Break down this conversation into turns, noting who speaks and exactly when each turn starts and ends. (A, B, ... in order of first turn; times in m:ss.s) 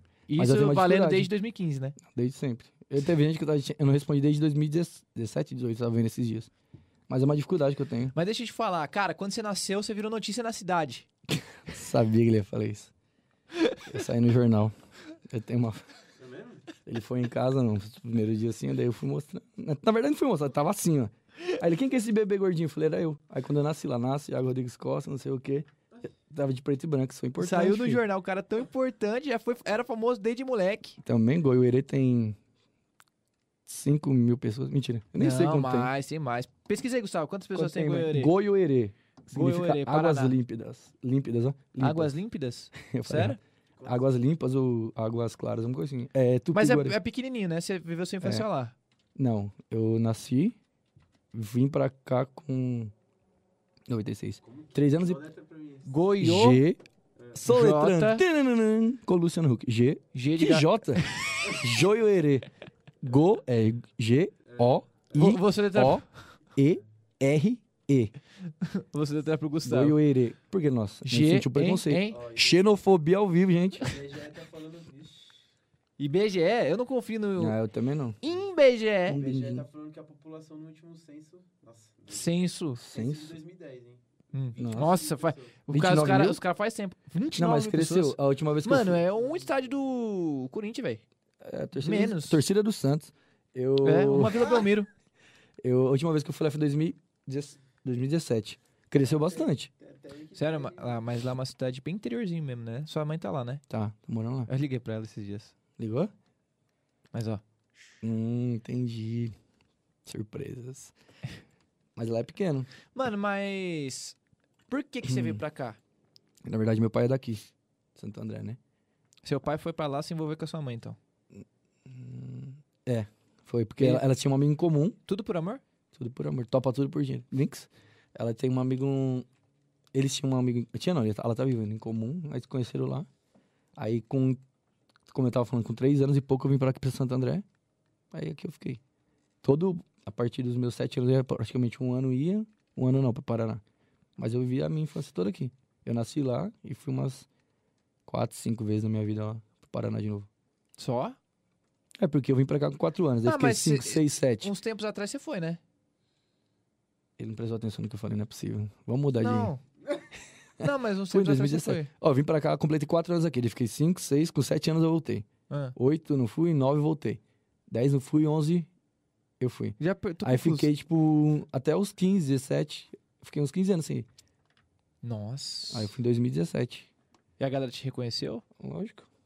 0:00.3-0:02.0 A
0:00.4-0:01.3 B
0:02.0-0:06.5 B
0:07.1-0:08.1 B
0:08.1-0:11.0 A
0:11.3-0:12.9 B
0:13.8-0:14.7 B
0:15.3-0:15.8 B
0:16.2-0:16.7 C
0:16.8-0:25.7 B
0:26.2-0:28.0 B
0:27.4-0:31.0 A
0:31.0-0:32.4 B
0:33.6-0:35.9 B
0:35.2-0:38.3 A
0:37.5-0:42.2 B
0:39.3-0:40.4 A
0:41.8-0:43.4 A
0:42.7-0:47.0 B
0:43.8-0:44.2 C
0:46.5-0:48.7 A
0:49.1-0:50.6 B
0:51.3-0:52.9 B
0:53.9-0:55.2 B
0:54.4-0:56.0 C
0:55.8-0:56.6 A
0:56.2-0:56.8 B
0:57.3-1:02.5 B
0:57.4-0:58.2 A
1:00.1-1:01.5 A
1:03.0-1:06.0 B
1:04.5-1:05.2 C
1:05.1-1:06.0 A
1:06.6-1:08.1 B
1:08.6-1:10.0 A
1:09.6-1:13.9 B
1:11.0-1:12.2 A
1:12.1-1:12.6 C
1:13.8-1:15.4 C
1:16.0-1:17.6 A
1:17.4-1:18.2 B
1:18.2-1:19.2 A
1:19.1-1:19.6 B
1:19.1-1:22.3 C
1:22.1-1:22.8 A
1:22.8-1:23.4 B
1:22.9-1:25.6 C
1:24.3-1:31.0 A
1:24.6-1:25.0 B
1:25.7-1:26.4 B
1:27.3-1:29.0 B
1:29.1-1:29.5 C
1:31.4-1:34.6 B
1:31.8-1:32.4 A
1:33.8-1:34.9 A
1:35.6-1:39.7 B
1:39.0-1:41.1 C
1:40.3-1:43.6 A
1:43.7-1:44.5 B
1:44.5-1:45.5 A
1:45.8-1:46.1 B
1:47.1-1:47.4 A
1:48.0-1:49.3 B
1:50.0-1:50.9 B
1:52.0-1:52.7 B
1:52.9-1:54.2 A
1:54.7-1:55.8 A
1:55.1-1:55.4 B
1:56.4-1:58.6 B
1:59.2-2:01.0 A
2:01.3-2:05.0 B
2:03.8-2:04.0 A
2:05.0-2:05.6 A
2:05.9-2:09.3 B
2:09.9-2:13.1 B
2:13.8-2:14.4 B
2:15.1-2:17.4 B
2:18.1-2:18.8 B
2:19.4-2:23.6 B
2:24.2-2:27.3 B
2:28.1-2:30.3 B
2:30.8-2:31.2 A
2:32.0-2:34.5 B
2:33.2-2:35.6 A
2:37.2-2:39.5 B
2:39.2-2:39.6 A
2:40.6-2:41.9 A
2:40.6-2:48.7 B
2:45.5-2:45.7 A
2:49.4-2:54.0 B
2:49.8-2:50.7 A
2:55.0-2:55.9 A
2:55.7-2:56.9 B
2:57.4-2:58.4 A
2:58.6-2:59.1 B